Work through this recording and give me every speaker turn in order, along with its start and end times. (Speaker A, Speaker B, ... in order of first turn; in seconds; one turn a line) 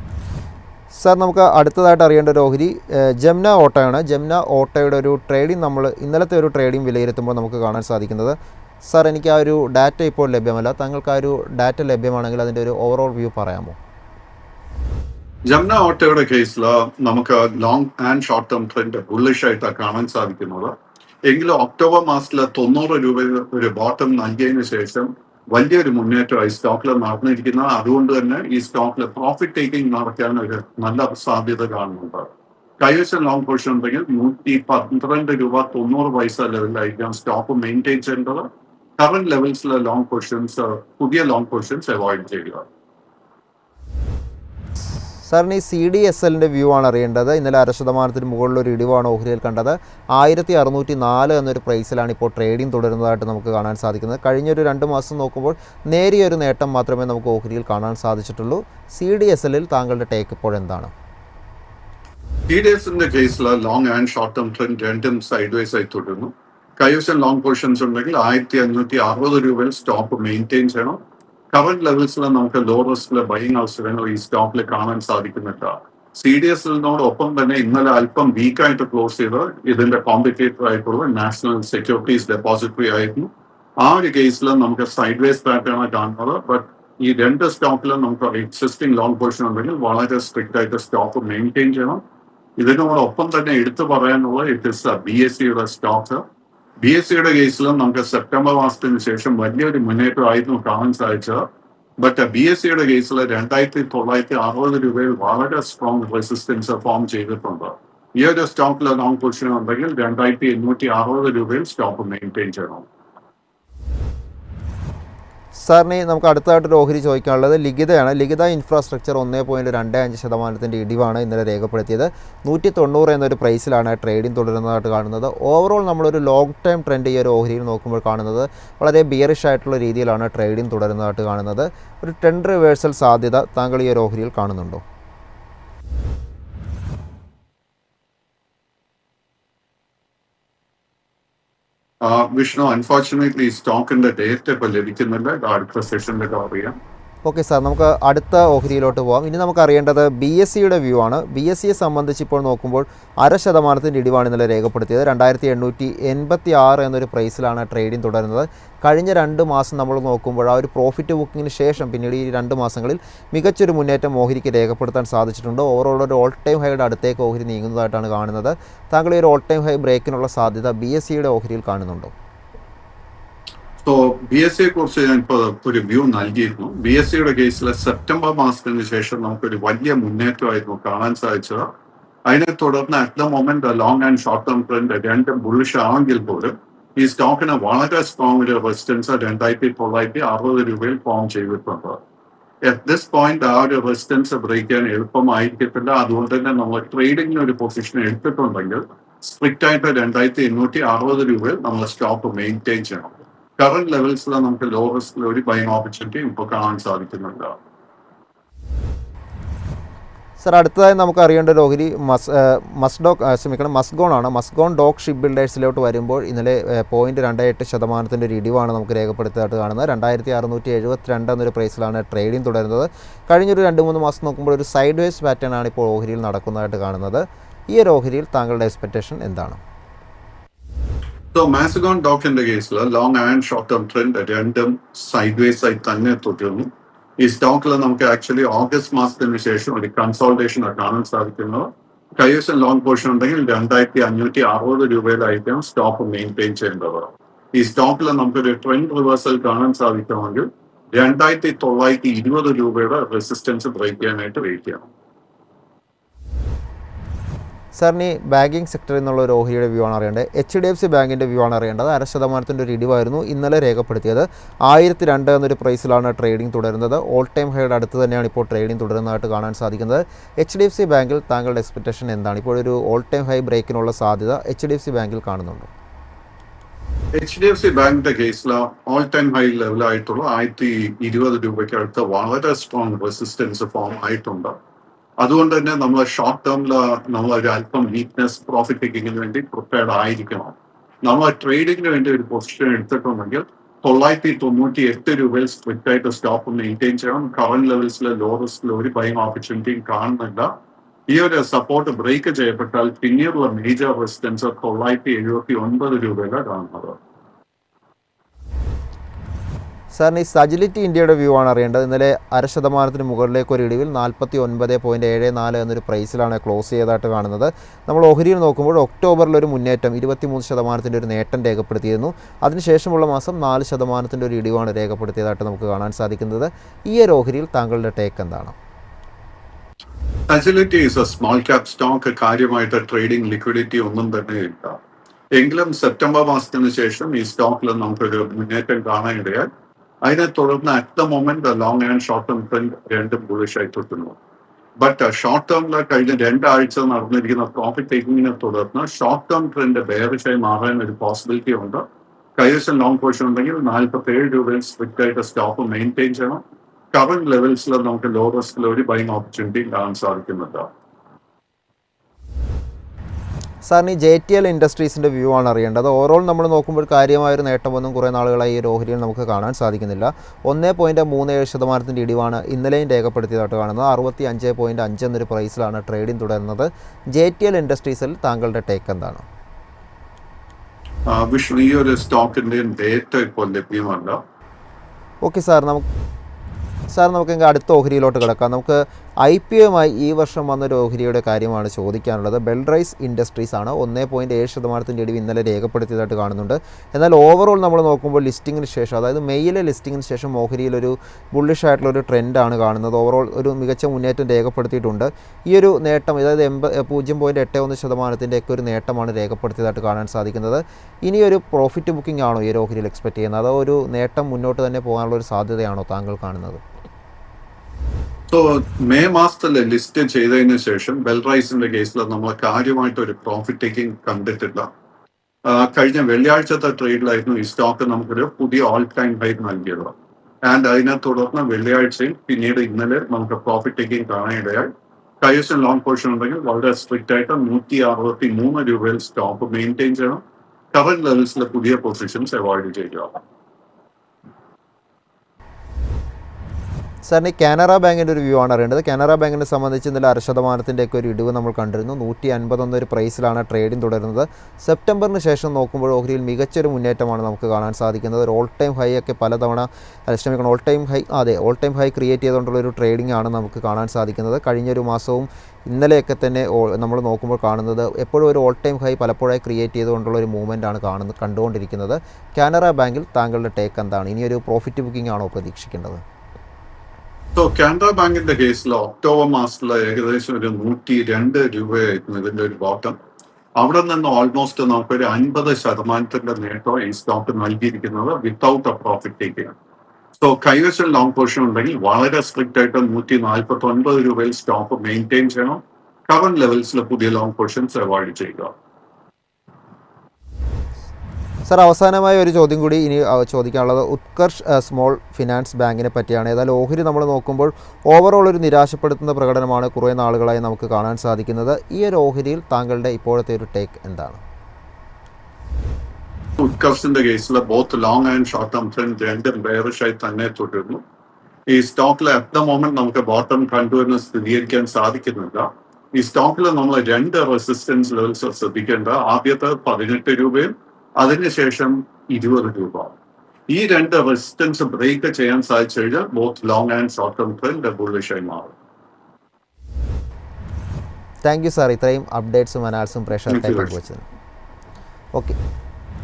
Speaker A: 1.0-13.8
Speaker B: 15.5-20.7
Speaker B: 21.3-32.3
Speaker B: 32.8-38.5
Speaker B: 39.0-42.7
Speaker A: 45.3-60.9
Speaker B: 62.5-71.0
Speaker B: 71.5-92.0
Speaker B: 92.6-96.2
Speaker B: 96.8-101.4
Speaker B: 102.0-112.9
Speaker A: 115.7-134.8
Speaker B: 142.0-146.8
Speaker A: 147.2-172.1
Speaker B: 173.8-181.7
Speaker B: 182.3-192.0
Speaker B: 192.6-207.6
Speaker A: 210.4-229.6
Speaker B: 231.3-254.9
Speaker A: 257.8-275.7
Speaker B: 277.1-284.5
Speaker B: 285.2-300.5
Speaker B: 301.1-307.0
Speaker A: 309.9-328.6
Speaker B: 330.3-334.8
Speaker B: 335.3-339.5
Speaker B: 340.0-344.1
Speaker B: 344.8-351.8
Speaker B: 352.4-356.4
Speaker B: 356.9-360.7
Speaker A: 363.7-379.2
Speaker B: 381.1-384.2
Speaker A: 385.3-385.9
Speaker A: 386.9-416.6
Speaker B: 418.3-424.7
Speaker B: 425.4-429.9
Speaker B: 430.5-434.7
Speaker B: 435.2-440.2
Speaker B: 440.7-443.2
Speaker A: 447.1-476.0
Speaker B: 477.4-483.0
Speaker B: 483.6-489.6
Speaker B: 490.2-498.5
Speaker A: 501.5-514.2
Speaker B: 516.4-520.8
Speaker B: 521.5-532.9
Speaker B: 533.5-538.5
Speaker A: 541.2-544.1
Speaker B: 543.3-543.8